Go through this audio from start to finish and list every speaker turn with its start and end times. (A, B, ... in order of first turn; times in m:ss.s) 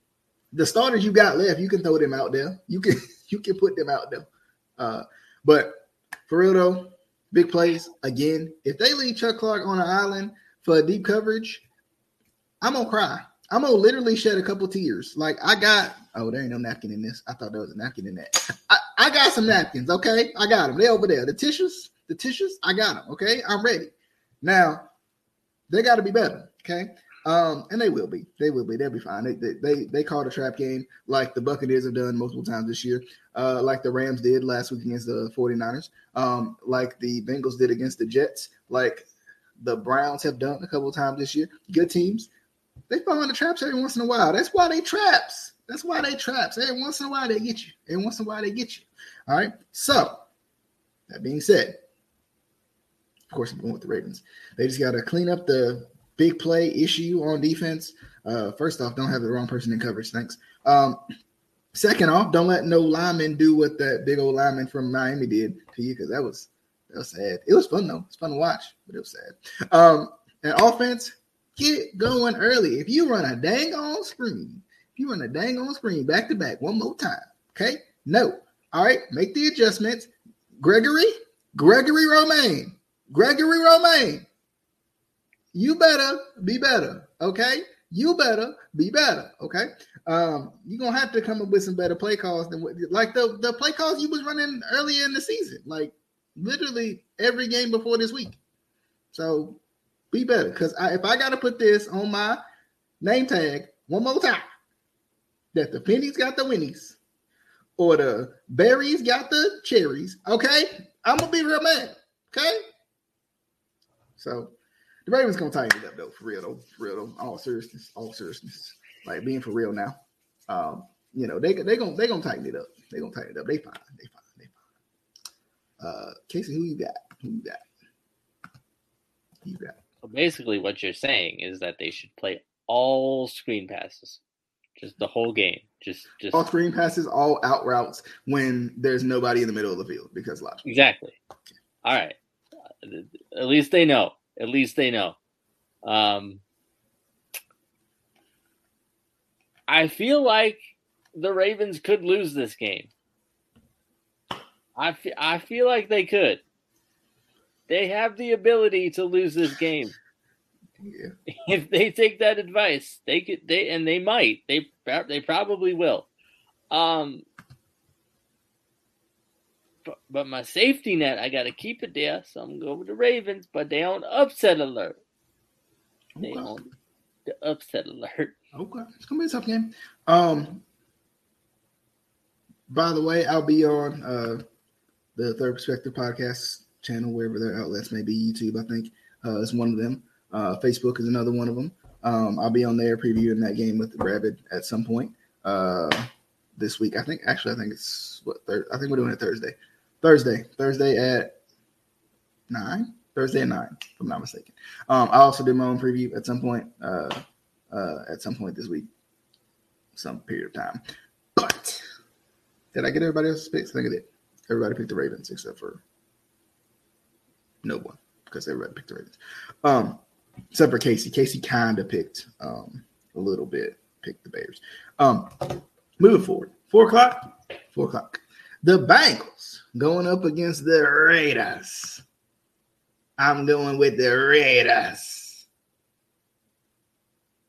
0:00.5-0:04.3 A
0:04.8-0:11.6 A
0:12.6-0:24.8 A
0:25.7-0:39.1 A
0:39.6-0:42.3 A
0:42.9-0:50.2 A
0:51.1-0:51.8 A
0:53.3-1:01.0 A
1:01.7-1:24.2 A
1:25.5-1:38.4 A
1:39.1-1:39.6 A
1:40.1-1:42.4 A
1:43.0-1:44.4 A
1:45.5-1:47.0 A
1:47.8-1:52.6 A
1:54.2-1:54.5 A
1:55.1-2:00.0 A
2:00.5-2:04.5 A
2:05.8-2:07.6 A
2:09.4-2:09.8 A
2:10.0-2:14.2 B
2:14.8-2:16.4 B
2:16.3-2:20.6 A
2:20.6-2:21.2 B
2:21.8-2:22.2 B
2:22.8-2:25.2 B
2:25.8-2:26.4 B
2:29.7-2:30.6 B
2:31.1-2:32.9 B
2:34.8-2:36.4 B
2:37.7-2:39.9 B
2:40.8-2:41.1 A
2:41.3-2:46.1 B
2:46.7-2:47.2 B
2:49.8-2:55.0 B
2:56.2-2:56.5 A
2:56.2-2:56.7 B
2:57.3-2:58.3 B
2:58.5-3:00.6 A
3:02.7-3:04.4 A
3:05.2-3:21.4 A
3:22.5-3:28.9 A
3:29.9-3:30.8 A
3:31.4-3:31.8 A
3:32.7-3:35.8 A
3:37.6-3:40.0 A
3:40.5-3:52.0 A
3:53.2-3:55.4 A